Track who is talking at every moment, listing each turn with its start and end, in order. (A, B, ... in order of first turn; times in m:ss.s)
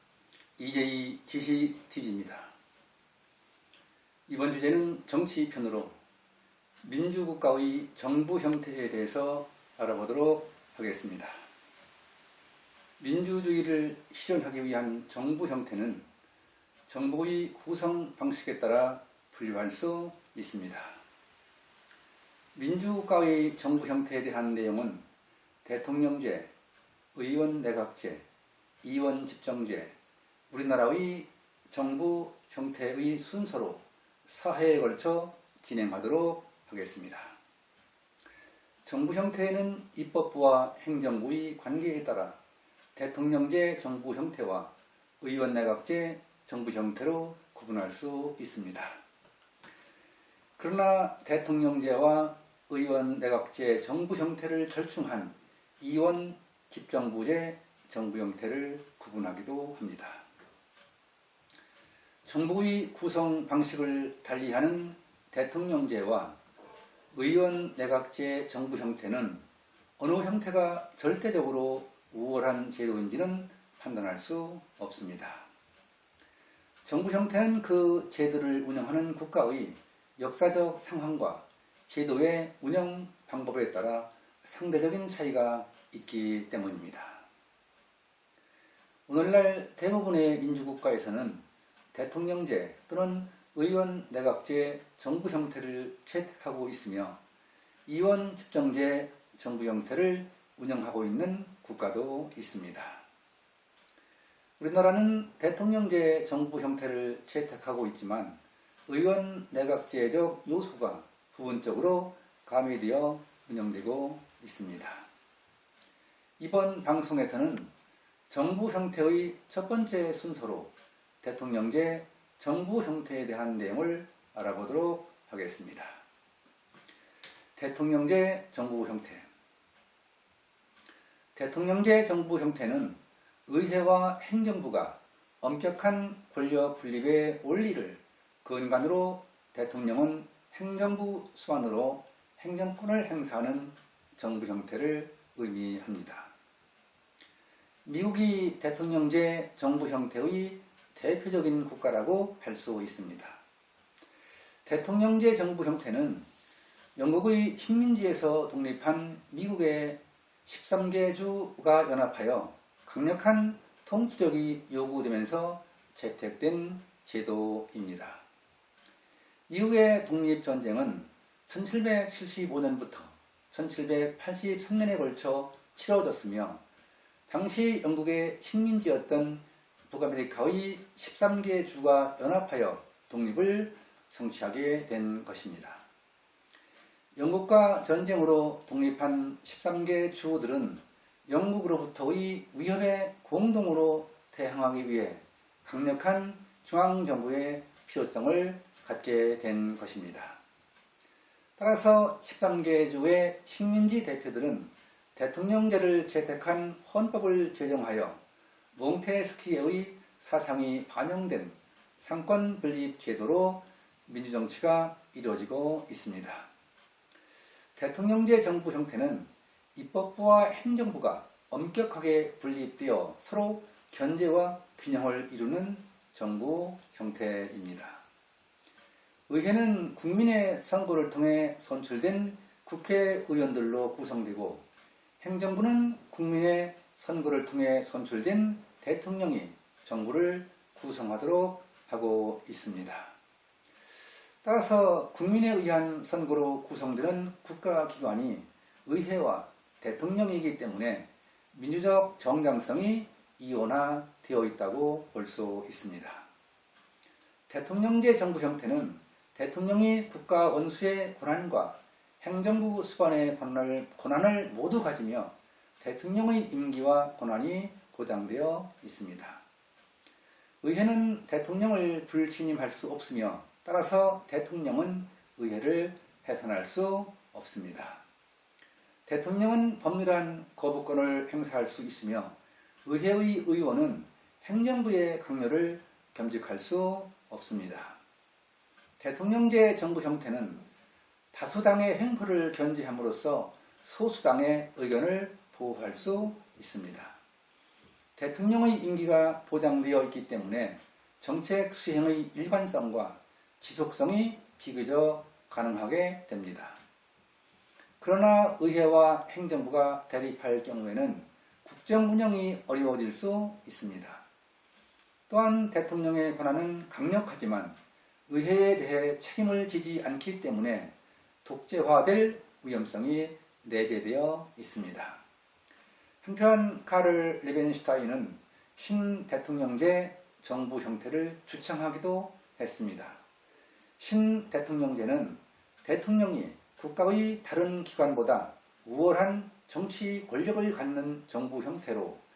0:00.6-0:02.5 A
0:04.3-0:05.9 A
0:06.8-0:11.4 A
0:13.0-0:16.0 A
0:16.9-0:21.0 A
0:22.5-0:25.0 A
0:25.6-0:26.5 A
0:27.1-0:28.2 A
0:28.8-0:29.9 A
0:30.5-0:37.4 A
0:38.8-0:42.4 A
0:42.9-0:49.0 A
0:50.6-1:00.2 A
1:02.2-1:06.4 A
1:07.1-1:09.4 A
1:10.0-1:15.5 A
1:16.8-1:27.2 A
1:29.1-1:37.2 A
1:37.8-1:43.0 A
1:44.6-1:55.1 A
1:56.4-1:57.7 A
1:58.3-2:06.0 A
2:07.6-2:09.3 A
2:11.3-2:26.3 A
2:27.8-2:33.4 A
2:34.6-2:36.3 A
2:37.0-2:48.2 A
2:49.5-2:56.6 A
2:57.3-3:05.8 A
3:07.1-3:20.4 A
3:21.6-3:28.2 A
3:28.7-3:36.5 A
3:37.8-3:48.0 A
3:49.3-3:54.6 A
3:55.2-4:03.1 A
4:04.4-4:16.2 A
4:17.5-4:29.4 A
4:30.6-4:38.0 A
4:39.0-4:48.0 A
4:49.0-4:50.7 A
4:51.3-4:57.2 A
4:58.2-5:06.8 A
5:08.0-5:14.2 A
5:15.3-5:17.8 A
5:18.3-5:20.9 A
5:21.4-5:25.2 A
5:26.2-5:33.2 A
5:34.0-5:42.2 A